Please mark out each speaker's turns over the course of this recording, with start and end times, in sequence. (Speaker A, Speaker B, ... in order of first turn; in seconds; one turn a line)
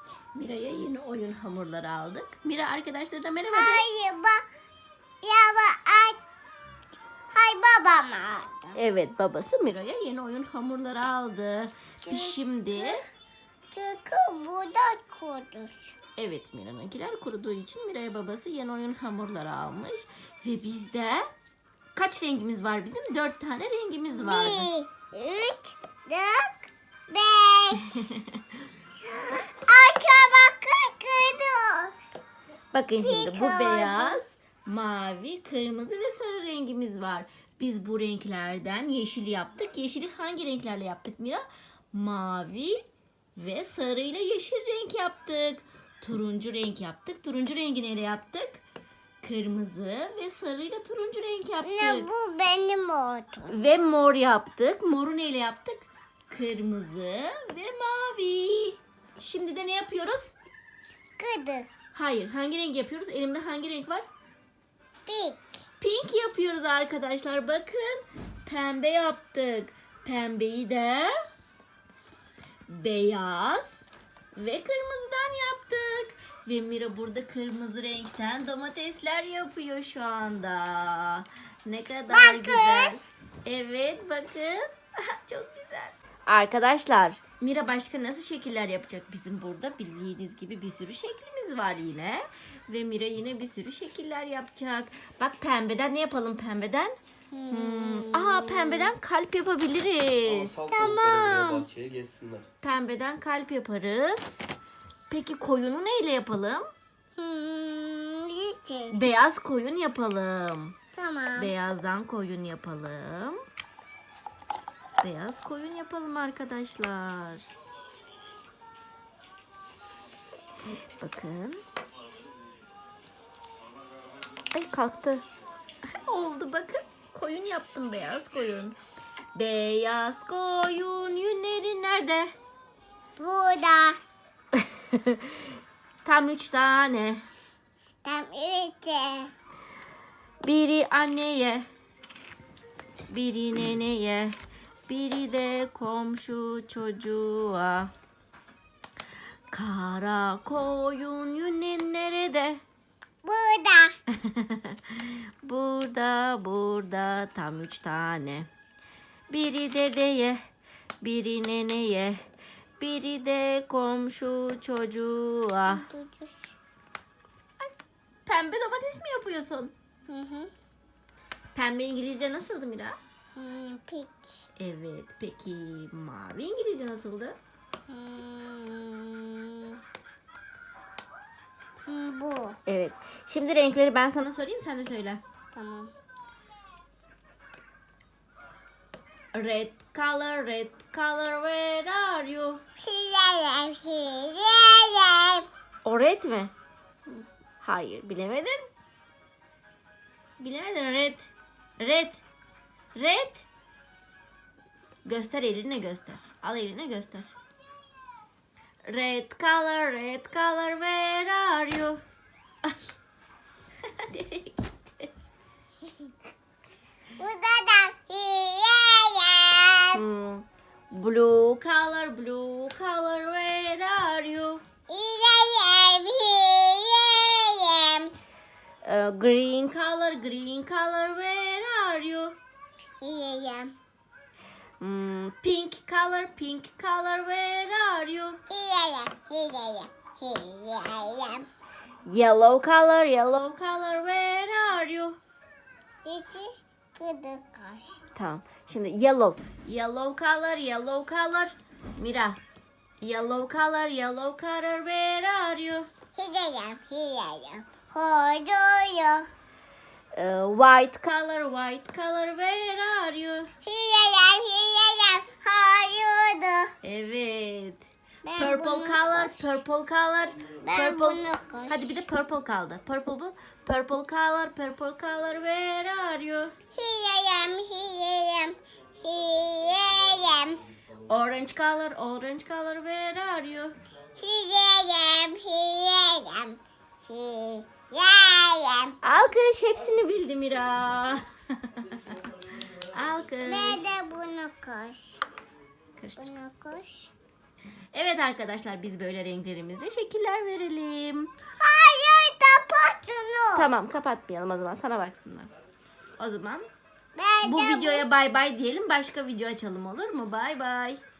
Speaker A: 0.3-3.8
Speaker B: 3.5-4.4
Speaker B: 5.2-6.2
Speaker B: 7.3-8.8
Speaker A: 8.8-13.0
Speaker B: 12.0-13.0
Speaker B: 13.7-15.9
Speaker A: 16.2-21.2
Speaker A: 21.9-24.7
Speaker B: 24.2-28.1
Speaker A: 27.8-28.4
Speaker B: 29.0-31.9
Speaker A: 32.7-42.8
Speaker B: 33.0-34.2
Speaker A: 43.4-48.6
Speaker A: 49.2-52.1
Speaker B: 51.6-53.5
Speaker A: 53.5-60.3
Speaker B: 61.2-61.7
Speaker A: 61.9-64.0
Speaker B: 65.0-65.5
Speaker A: 65.8-71.1
Speaker A: 72.7-97.0
Speaker B: 82.1-83.0
Speaker B: 97.3-98.9
Speaker A: 97.5-100.5
Speaker C: 100.2-102.5
Speaker B: 100.7-101.7
Speaker A: 102.6-104.4
Speaker A: 105.1-106.7
Speaker B: 107.2-109.0
Speaker A: 108.9-110.7
Speaker B: 110.9-111.5
Speaker A: 111.3-113.4
Speaker A: 115.0-117.4
Speaker A: 121.0-121.6
Speaker A: 124.5-125.2
Speaker A: 126.0-128.7
Speaker A: 129.3-132.3
Speaker B: 133.2-134.0
Speaker A: 134.9-135.2
Speaker A: 136.0-137.2
Speaker B: 138.0-139.3
Speaker A: 140.4-141.7
Speaker A: 143.1-144.3
Speaker A: 144.9-147.9
Speaker A: 149.5-152.6
Speaker B: 153.2-153.9
Speaker A: 154.2-158.5
Speaker A: 159.3-160.4
Speaker A: 161.0-162.2
Speaker A: 162.8-165.8
Speaker B: 165.7-166.5
Speaker A: 168.2-169.7
Speaker B: 170.1-170.5
Speaker A: 171.5-173.0
Speaker B: 173.3-174.4
Speaker A: 174.6-177.4
Speaker B: 177.9-179.8
Speaker B: 181.9-182.6
Speaker A: 182.7-185.2
Speaker B: 185.5-185.9
Speaker A: 189.3-192.6
Speaker B: 192.8-195.4
Speaker A: 195.8-196.5
Speaker A: 197.6-198.6
Speaker A: 200.4-201.3
Speaker A: 201.8-202.2
Speaker A: 202.9-203.4
Speaker A: 205.0-207.3
Speaker A: 208.9-212.0
Speaker A: 213.8-215.1
Speaker B: 217.2-220.0
Speaker A: 219.9-224.6
Speaker B: 224.9-228.1
Speaker A: 228.8-232.3
Speaker B: 233.0-233.7
Speaker A: 234.8-238.4
Speaker B: 238.5-241.4
Speaker A: 242.1-245.2
Speaker B: 246.0-248.0
Speaker A: 248.2-252.4
Speaker A: 253.0-255.9
Speaker B: 256.1-259.3
Speaker A: 260.1-263.5
Speaker B: 263.6-266.7
Speaker A: 266.8-267.8
Speaker B: 268.2-269.5
Speaker A: 268.4-276.5
Speaker B: 270.6-272.0
Speaker B: 276.7-280.6
Speaker A: 281.1-283.7
Speaker B: 284.2-289.0
Speaker A: 289.0-292.2
Speaker A: 292.9-293.8
Speaker B: 293.4-295.2
Speaker A: 296.0-296.4
Speaker B: 296.2-297.1
Speaker A: 297.9-301.3
Speaker B: 301.6-303.7
Speaker A: 303.5-305.5
Speaker A: 306.2-306.7
Speaker B: 307.1-308.1
Speaker A: 307.4-311.0